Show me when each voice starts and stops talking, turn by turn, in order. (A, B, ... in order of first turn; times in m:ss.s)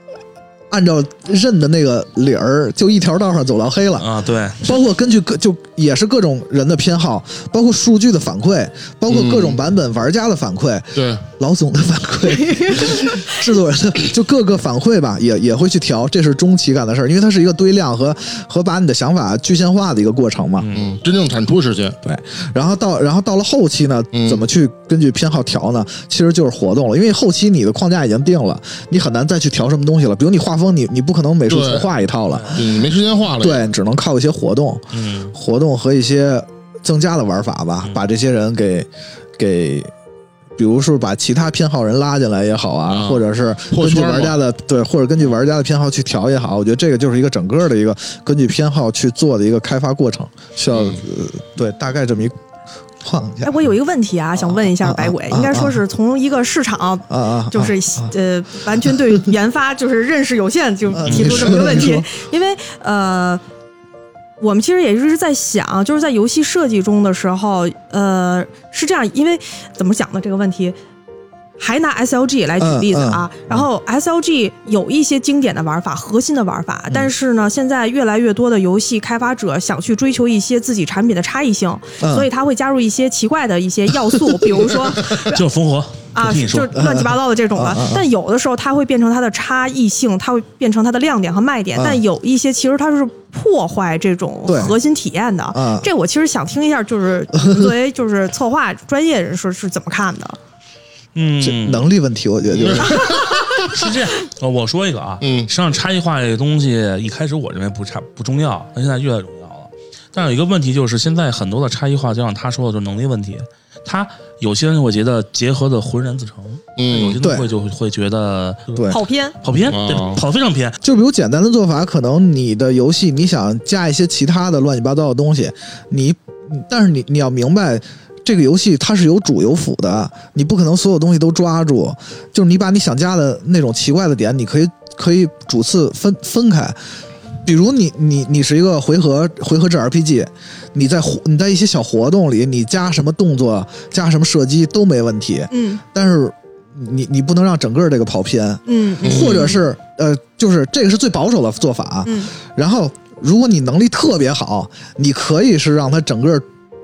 0:00.7-0:04.1 A
0:04.0-0:04.6 B
0:04.6-0:20.7 A
0:09.1-0:09.6 C
0:11.0-0:11.2 C
0:12.4-0:13.2 D
0:20.6-0:20.9 B
0:20.7-0:22.0 C
0:22.0-0:32.7 A
0:24.1-0:24.4 C
0:31.5-0:31.9 C
0:32.3-0:32.7 B
0:32.5-0:33.6 C
0:33.4-0:39.9 A
0:34.9-0:35.3 B
0:40.6-0:52.4 A
0:42.9-0:44.4 C
0:50.7-0:51.0 C
0:53.0-0:53.5 A
0:53.4-1:03.4 D
0:54.4-0:55.8 A
0:57.1-0:58.1 A
0:58.9-0:59.2 A
1:00.9-1:02.1 A
1:01.0-1:01.8 B
1:04.4-1:10.8 D
1:11.6-1:25.4 D
1:12.6-1:13.3 A
1:22.0-1:22.3 A
1:24.8-1:26.8 B
1:26.2-1:40.4 D
1:26.7-1:28.0 A
1:34.5-1:34.8 A
1:35.5-1:35.9 A
1:37.4-1:37.7 A
1:41.2-1:41.9 B
1:41.4-1:43.3 A
1:42.5-1:43.2 C
1:43.5-2:00.8 B
1:45.2-1:45.5 C
1:56.8-1:57.2 C
1:57.1-1:57.5 A
1:58.7-1:59.0 A
1:58.9-1:59.4 D
1:59.6-2:00.2 C
2:00.8-2:16.8 A
2:17.4-2:36.4 A
2:25.5-2:25.8 D
2:28.7-2:29.6 D
2:29.0-2:29.5 C
2:32.0-2:32.3 D